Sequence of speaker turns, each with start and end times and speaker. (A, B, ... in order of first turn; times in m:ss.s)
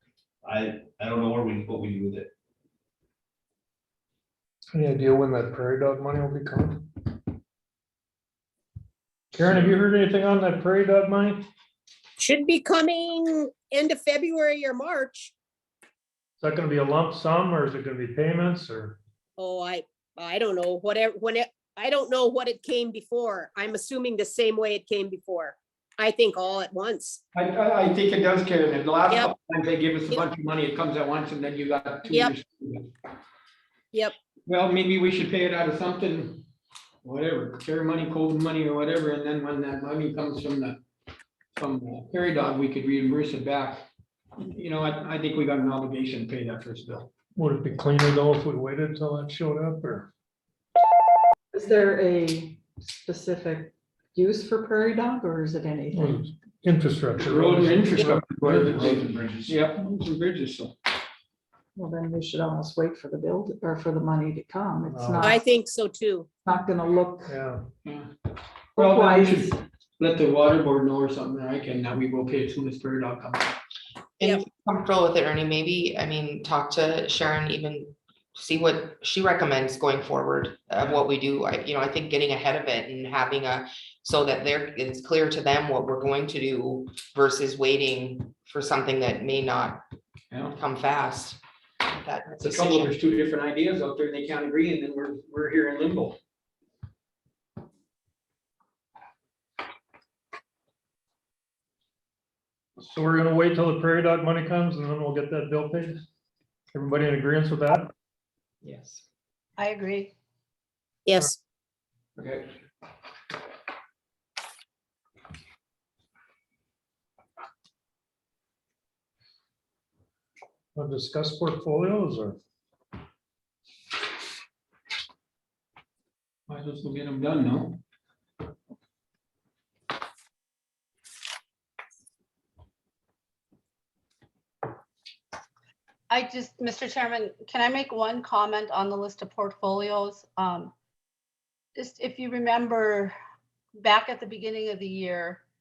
0:00.4-0:02.3 A
0:04.7-0:06.9 B
0:09.3-0:11.4 B
0:12.2-0:15.3 C
0:16.4-0:19.0 B
0:19.4-0:27.2 C
0:27.3-0:32.9 D
0:34.4-0:36.4 D
0:37.0-0:40.8 D
0:41.5-0:43.8 D
0:44.4-0:47.1 D
0:47.4-0:50.1 B
0:51.5-0:56.3 E
0:55.9-0:59.0 B
0:57.2-1:00.8 D
0:58.2-0:59.7 A
1:01.7-1:05.4 E
1:04.9-1:05.4 B
1:05.2-1:06.3 C
1:06.4-1:07.3 E
1:07.2-1:07.6 B
1:07.8-1:08.1 D
1:08.7-1:13.6 D
1:08.8-1:09.6 E
1:14.2-1:29.8 F
1:30.3-1:30.6 D
1:30.5-1:32.9 F
1:32.4-1:36.2 D
1:42.8-1:46.0 B
1:46.7-1:47.9 B
1:48.6-1:49.0 D
1:49.6-1:50.1 G
1:51.0-1:51.4 C
1:52.2-1:52.5 D
2:00.7-2:02.4 B
2:06.5-2:07.8 D
2:16.1-2:20.7 G
2:21.8-2:23.1 G
2:23.8-2:25.4 G